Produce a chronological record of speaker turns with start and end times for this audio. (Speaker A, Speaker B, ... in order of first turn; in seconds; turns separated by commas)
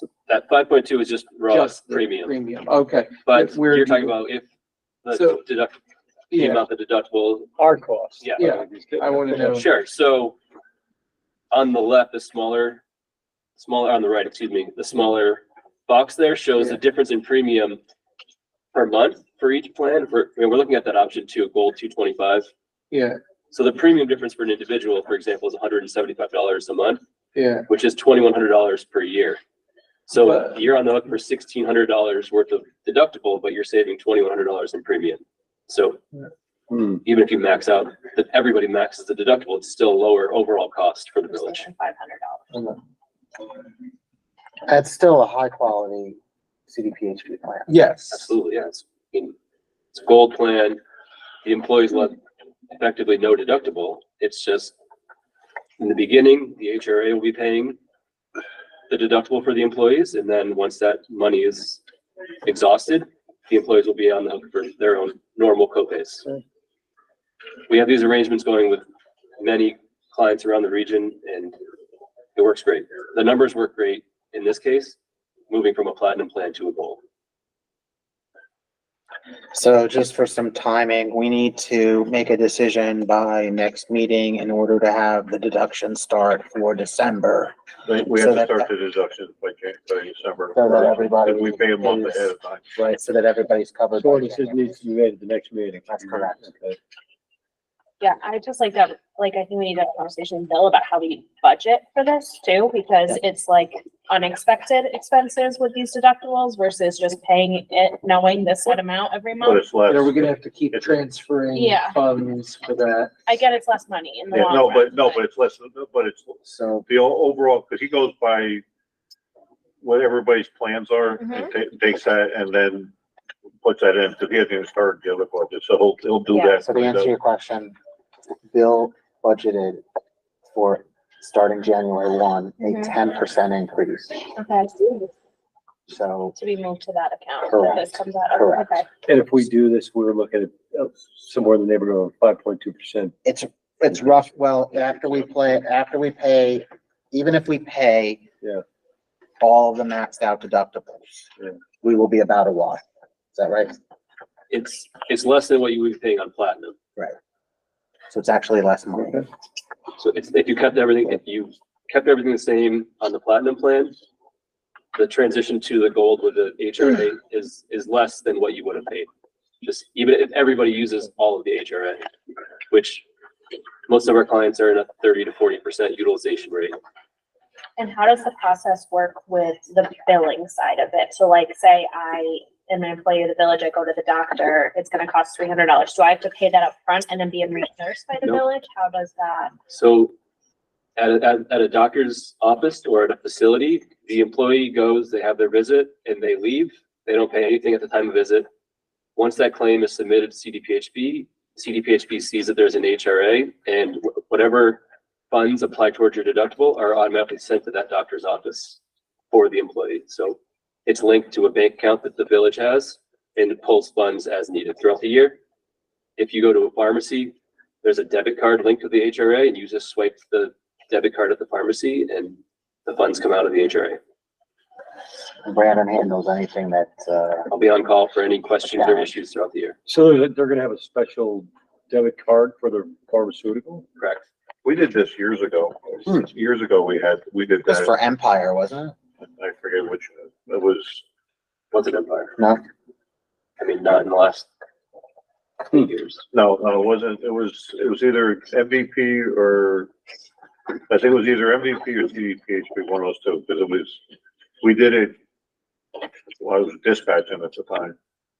Speaker A: 0.3-2.3, Speaker B: 1.5-4.1, Speaker A: 3.2-4.4, Speaker A: 5.0-5.8, Speaker B: 5.1-5.4, Speaker B: 6.3-6.6, Speaker A: 6.3-7.5, Speaker C: 7.6-9.6, Speaker B: 8.4-9.7, Speaker A: 9.4-10.3, Speaker A: 11.5-12.8, Speaker A: 13.6-17.8, Speaker A: 18.7-22.5, Speaker B: 22.9-23.2, Speaker A: 23.5-27.0, Speaker B: 27.3-27.7, Speaker A: 27.7-29.4, Speaker A: 30.1-36.0, Speaker B: 30.2-30.5, Speaker C: 36.7-37.0, Speaker A: 37.0-41.6, Speaker D: 41.2-42.5, Speaker E: 44.7-47.7, Speaker B: 47.7-48.3, Speaker A: 48.1-49.3, Speaker A: 49.9-50.8, Speaker A: 51.4-52.2, Speaker A: 52.7-54.7, Speaker A: 55.8-57.8, Speaker A: 58.9-61.8, Speaker A: 62.4-66.2, Speaker A: 67.7-68.8, Speaker A: 69.4-71.6, Speaker A: 72.3-75.0, Speaker A: 75.5-77.0, Speaker E: 79.5-87.5, Speaker F: 87.8-92.7, Speaker E: 88.0-88.7, Speaker E: 90.5-94.8, Speaker C: 94.0-96.8, Speaker E: 95.9-96.4, Speaker D: 98.0-109.6, Speaker F: 109.4-111.0, Speaker B: 109.9-113.1, Speaker D: 111.5-112.0, Speaker D: 113.2-115.2, Speaker F: 114.3-118.6, Speaker E: 116.4-116.9, Speaker F: 119.8-122.9, Speaker D: 121.2-121.5, Speaker F: 123.6-127.1, Speaker D: 126.3-126.5, Speaker E: 126.6-127.7, Speaker E: 128.5-129.8, Speaker E: 130.5-134.3, Speaker D: 132.6-132.9, Speaker D: 134.3-135.1, Speaker E: 135.9-136.3, Speaker D: 136.4-138.9, Speaker E: 137.5-138.7, Speaker C: 139.1-143.1, Speaker E: 143.2-148.2, Speaker E: 149.4-151.3, Speaker E: 151.8-152.8, Speaker E: 153.3-153.7, Speaker A: 154.5-156.7, Speaker E: 158.1-159.2, Speaker A: 160.0-163.9, Speaker A: 164.9-169.1, Speaker A: 169.6-172.1, Speaker A: 172.7-173.0, Speaker A: 173.9-176.8, Speaker D: 177.8-189.5, Speaker A: 189.7-190.1, Speaker A: 191.0-198.5, Speaker A: 199.2-208.8, Speaker A: 209.3-215.4, Speaker A: 216.2-224.0, Speaker E: 225.4-227.5, Speaker A: 227.5-229.8, Speaker E: 228.6-229.1, Speaker C: 229.8-233.8, Speaker A: 234.0-234.2, Speaker F: 234.6-237.9, Speaker E: 237.7-238.9, Speaker F: 239.2-241.0, Speaker A: 241.7-242.3, Speaker A: 243.6-244.5, Speaker A: 245.7-246.2, Speaker F: 246.3-249.9, Speaker F: 250.9-254.0, Speaker F: 254.6-255.2, Speaker F: 256.4-257.9